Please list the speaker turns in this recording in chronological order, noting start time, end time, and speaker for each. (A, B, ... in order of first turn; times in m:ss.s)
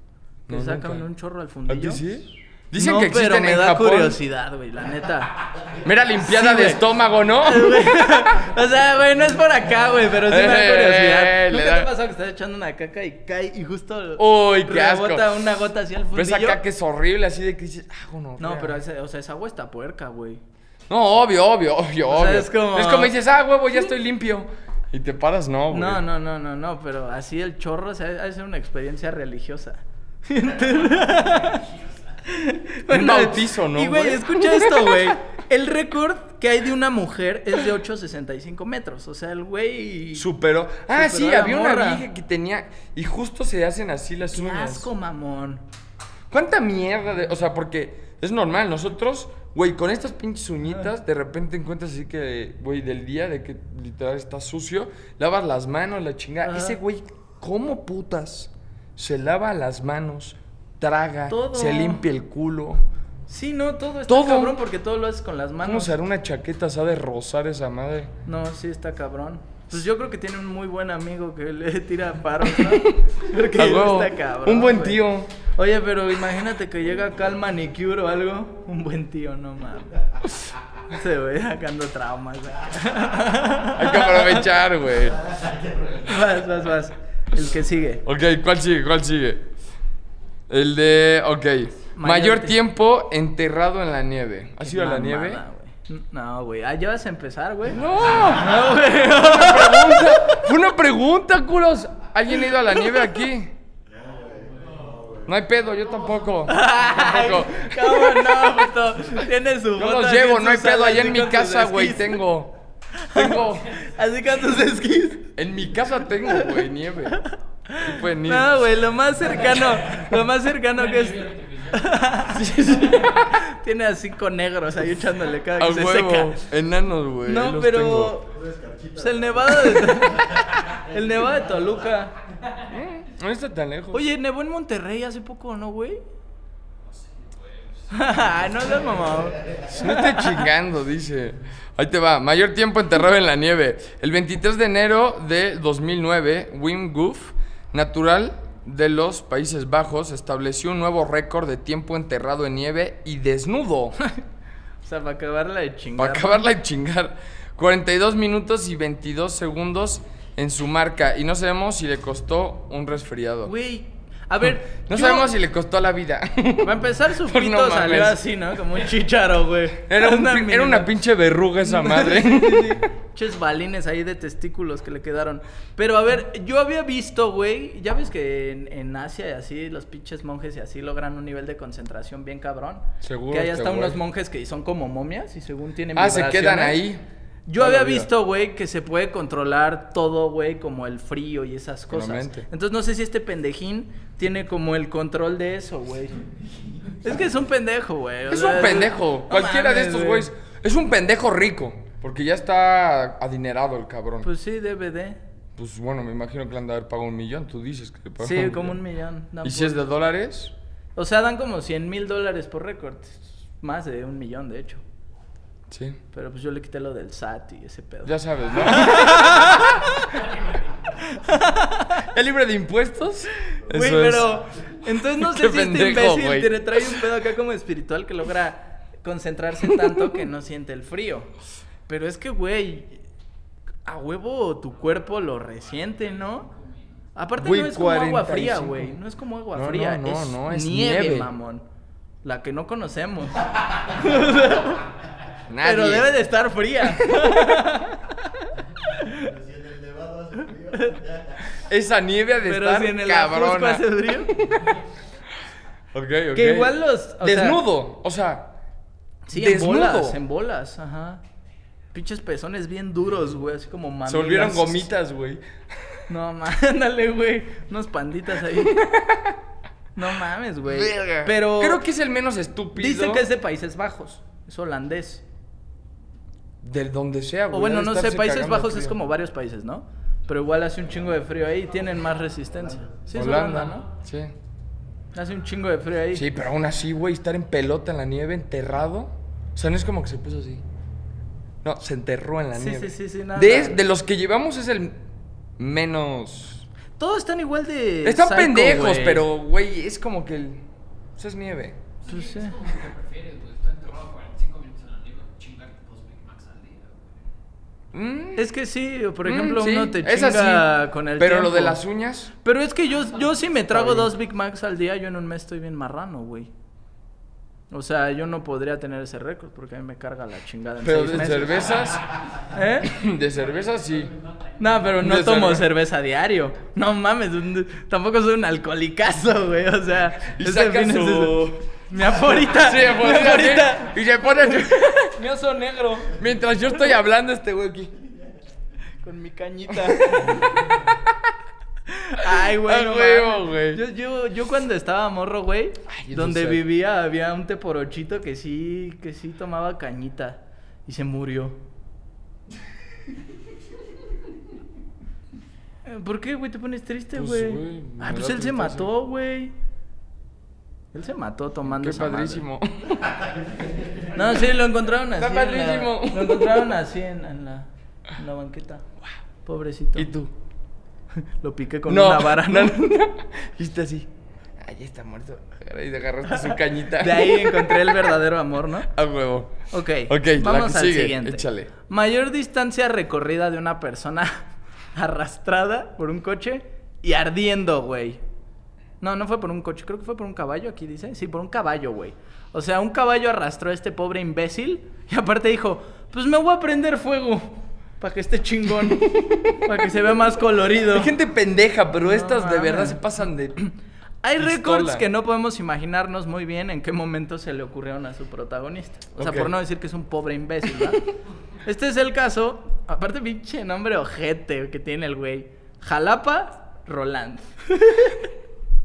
0:00.5-0:01.0 A
0:00.5-0:02.0 B
0:01.7-0:04.2 A
0:02.8-0:05.5 B
0:05.8-0:08.2 A
0:06.2-0:06.8 B
0:07.4-0:16.6 B
0:10.2-0:11.9 A
0:14.2-0:15.4 A
0:16.1-0:18.8 A
0:18.4-0:20.4 B
0:20.9-0:26.0 A
0:22.1-0:23.1 B
0:25.7-0:31.7 B
0:32.2-0:40.3 B
0:32.9-0:35.1 A
0:40.1-0:44.9 A
0:40.9-0:42.0 B
0:44.3-0:45.6 B
0:46.3-1:02.8 A
0:56.4-0:56.8 B
1:01.3-1:02.0 B
1:03.3-1:05.9 B
1:04.1-1:04.6 A
1:05.6-1:08.1 A
1:08.2-1:20.1 B
1:12.6-1:13.0 A
1:13.5-1:15.3 A
1:20.9-1:24.4 B
1:23.7-1:25.2 A
1:25.3-1:26.0 C
1:26.0-1:28.0 B
1:28.0-1:29.5 A
1:30.5-1:35.4 A
1:31.9-1:32.6 B
1:34.6-1:40.4 B
1:37.7-1:43.5 A
1:43.9-1:45.3 C
1:45.2-1:48.4 A
1:46.4-1:52.2 B
1:49.8-1:52.6 A
1:53.0-1:55.3 B
1:53.1-1:53.8 A
1:55.4-1:57.2 A
1:56.3-1:56.6 B
1:57.1-2:02.5 B
1:57.8-1:58.7 A
1:59.6-2:00.1 D
2:00.7-2:03.3 D
2:02.3-2:03.3 A
2:03.1-2:06.4 B
2:05.6-2:08.2 A
2:07.2-2:08.3 B
2:08.3-2:10.2 C
2:08.9-2:12.1 B
2:12.7-2:14.0 A
2:13.9-2:16.0 B
2:17.9-2:20.5 B
2:19.7-2:34.0 A
2:34.8-2:36.5 B
2:36.0-2:43.5 A
2:43.4-2:45.3 B
2:44.4-2:48.2 A
2:46.6-2:50.9 B
2:49.8-2:52.8 A
2:51.6-3:06.8 B
3:03.0-3:04.0 A
3:05.9-3:07.0 A
3:07.5-3:16.2 B
3:07.6-3:08.1 A
3:11.9-3:12.5 A
3:17.0-3:20.3 B
3:18.3-3:24.3 A
3:24.2-3:25.2 B
3:25.6-3:28.8 A
3:28.2-3:29.9 B
3:29.4-3:30.5 A
3:31.0-3:34.8 B
3:35.7-3:36.0 A
3:36.1-3:40.3 B
3:38.0-3:39.8 A
3:41.0-3:42.0 B
3:42.0-3:44.4 A
3:43.5-3:51.3 B
3:44.9-3:47.0 A
3:49.7-3:50.0 A
3:51.9-3:53.0 B
3:53.8-3:56.5 B
3:55.4-3:57.1 D
3:57.1-4:01.6 B
3:57.4-3:59.0 A
3:59.5-4:01.3 A
4:02.2-4:04.9 B
4:05.5-4:06.1 A
4:05.6-4:09.2 B
4:09.1-4:11.4 C
4:11.6-4:14.8 A
4:12.4-4:14.3 B
4:15.9-4:18.6 A
4:16.3-4:17.6 B
4:19.3-4:21.2 B
4:19.3-4:20.2 A
4:21.9-4:24.9 B
4:24.0-4:26.0 A
4:26.1-4:28.9 B
4:28.5-4:29.4 A
4:29.9-4:31.8 B
4:30.6-4:33.3 A
4:32.7-4:35.2 B
4:36.6-4:39.0 A
4:37.5-4:43.9 B
4:43.1-4:44.3 A
4:45.1-4:46.3 B
4:46.1-4:50.6 A
4:51.6-4:55.0 A
4:52.5-4:53.8 B
4:55.6-4:56.7 A
4:57.0-4:59.2 B
4:58.0-5:00.6 A
5:01.2-5:01.8 A
5:02.0-5:07.2 D
5:02.1-5:02.6 B
5:07.9-5:08.5 A
5:08.4-5:11.8 B
5:09.2-5:12.3 A
5:12.4-5:16.5 B
5:13.7-5:14.1 A
5:17.7-5:21.7 B
5:20.8-5:22.0 A
5:22.5-5:22.9 B
5:22.8-5:24.1 A
5:23.4-5:24.9 D
5:24.6-5:36.2 B
5:25.0-5:25.7 A
5:30.2-5:31.6 A
5:32.2-5:35.2 A
5:36.1-5:37.9 A
5:39.0-5:40.5 B
5:39.7-5:41.1 A
5:41.9-5:51.6 B
5:42.3-5:43.8 A
5:45.9-5:46.6 A
5:55.8-5:59.5 B
5:57.1-5:58.9 A
6:00.9-6:02.4 B
6:01.6-6:03.2 A
6:04.1-6:08.8 B
6:05.1-6:06.7 A
6:09.4-6:10.1 B
6:10.0-6:10.3 A
6:11.4-6:12.9 B
6:11.9-6:18.0 A
6:16.4-6:18.9 B
6:18.9-6:21.7 A
6:19.7-6:28.2 B
6:29.0-6:41.1 B
6:38.8-6:39.7 A
6:40.8-6:43.6 A
6:42.0-6:43.0 B
6:44.2-6:51.0 B
6:44.4-6:45.0 A
6:49.2-6:49.5 A
6:51.6-6:58.3 B